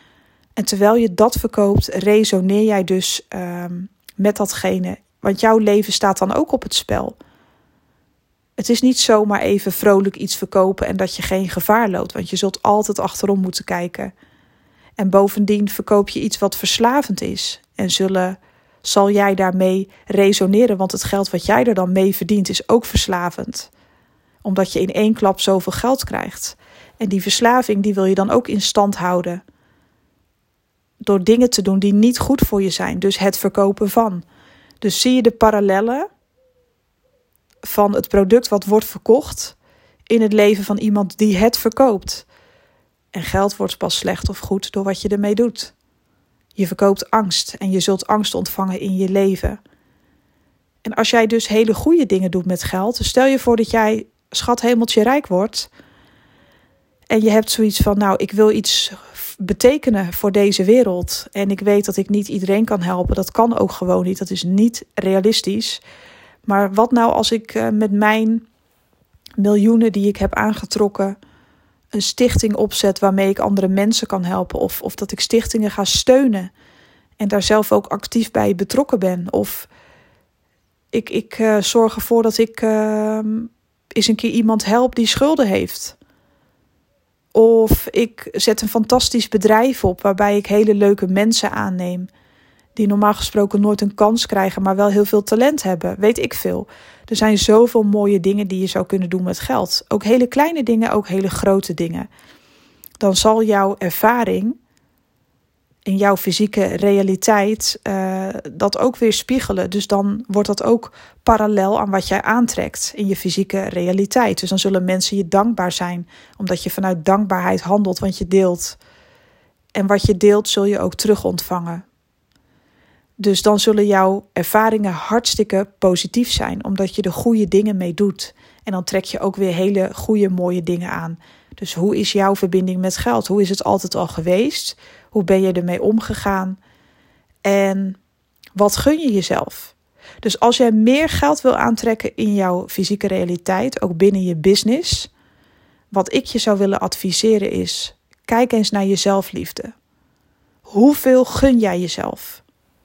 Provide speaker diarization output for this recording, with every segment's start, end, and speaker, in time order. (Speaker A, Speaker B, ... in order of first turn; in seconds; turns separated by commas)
Speaker A: 0.6-7.2, Speaker A: 8.6-14.1, Speaker A: 15.0-23.7, Speaker A: 24.4-29.4, Speaker A: 31.0-34.2, Speaker A: 34.8-36.1, Speaker A: 37.6-39.5, Speaker A: 40.1-42.2, Speaker A: 43.1-45.7, Speaker A: 46.5-49.6, Speaker A: 50.8-55.7, Speaker A: 57.1-65.8, Speaker A: 66.5-68.4, Speaker A: 69.4-71.2, Speaker A: 71.9-76.5, Speaker A: 77.2-79.7, Speaker A: 80.9-86.0, Speaker A: 87.3-92.1, Speaker A: 92.8-102.1, Speaker A: 103.0-104.5, Speaker A: 105.8-118.8, Speaker A: 119.7-121.8, Speaker A: 123.2-136.6, Speaker A: 137.4-138.0, Speaker A: 138.5-145.1, Speaker A: 145.9-149.7, Speaker A: 150.7-152.4